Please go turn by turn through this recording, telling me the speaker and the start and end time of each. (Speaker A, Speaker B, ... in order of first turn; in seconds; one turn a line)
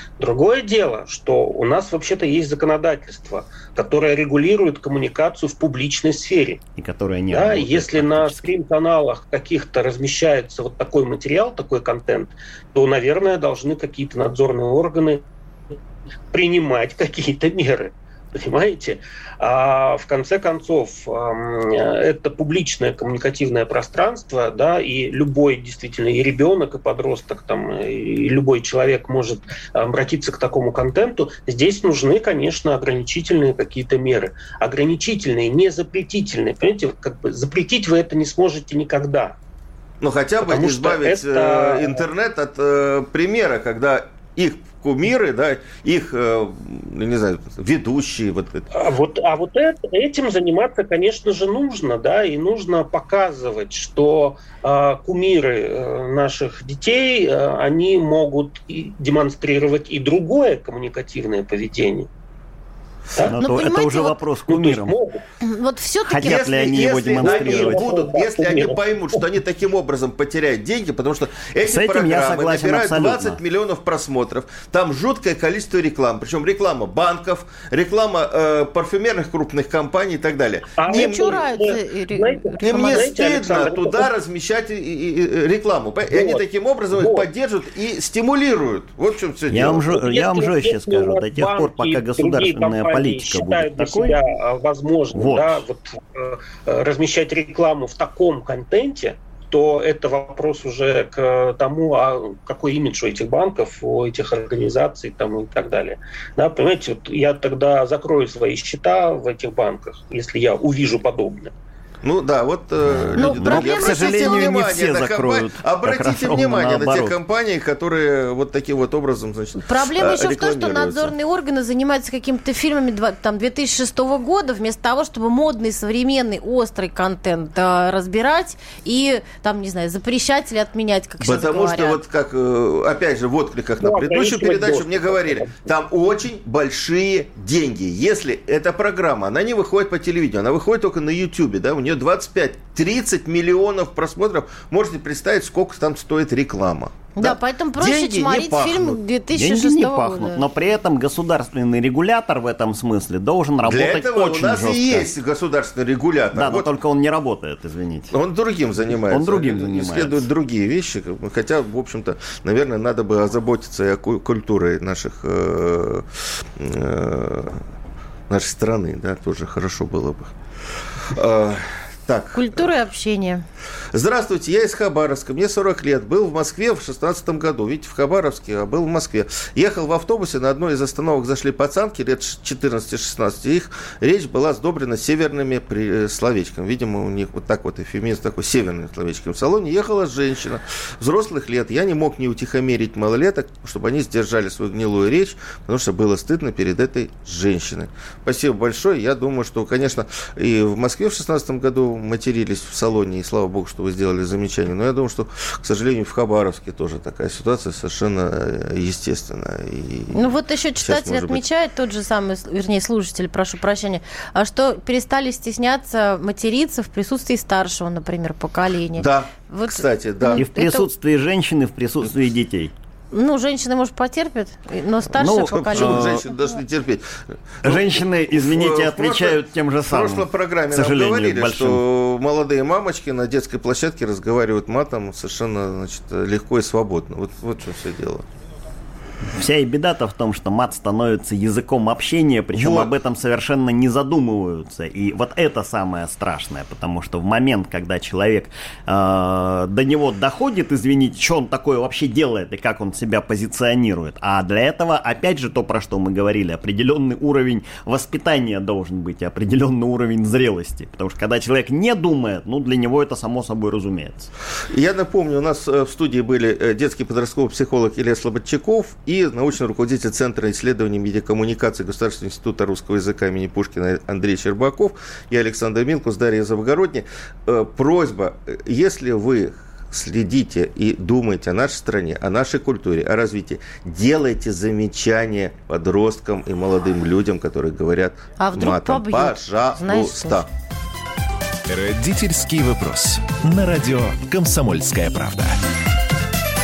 Speaker A: 0.2-6.6
Speaker B: 6.8-8.5
Speaker A: 7.3-15.2
Speaker A: 16.3-39.4
Speaker C: 40.0-48.7
Speaker A: 40.4-42.0
Speaker A: 48.7-62.1
Speaker B: 63.3-65.0
Speaker D: 63.3-64.2
Speaker A: 64.5-65.2
Speaker D: 65.5-66.5
Speaker B: 66.1-67.9
Speaker C: 66.2-81.5
Speaker A: 67.1-68.8
Speaker B: 71.6-73.4
Speaker A: 80.8-84.1
Speaker D: 80.9-83.2
Speaker C: 82.6-89.9
Speaker A: 86.1-87.3
Speaker B: 89.5-94.2
Speaker A: 89.9-111.5
Speaker B: 95.1-95.6
Speaker C: 112.0-121.2
Speaker B: 112.9-117.2
Speaker D: 113.2-114.5
Speaker D: 119.6-132.0
Speaker C: 131.2-149.0
Speaker A: 133.8-135.7
Speaker D: 147.2-150.4
Speaker B: 149.3-155.1
Speaker C: 153.6-156.7
Speaker B: 156.3-158.1
Speaker C: 158.1-167.6
Speaker B: 159.1-160.3
Speaker C: 168.3-170.3
Speaker C: 171.1-172.7
Speaker D: 172.3-173.4
Speaker C: 173.9-211.4
Speaker D: 210.1-220.9
Speaker C: 219.0-220.5
Speaker B: 220.4-222.7
Speaker D: 223.1-226.6
Speaker B: 225.2-226.2
Speaker C: 225.2-238.3
Speaker B: 227.6-231.8
Speaker B: 239.3-264.3
Speaker C: 242.5-242.9
Speaker C: 264.7-290.5
Speaker D: 288.4-290.4
Speaker E: 291.7-295.6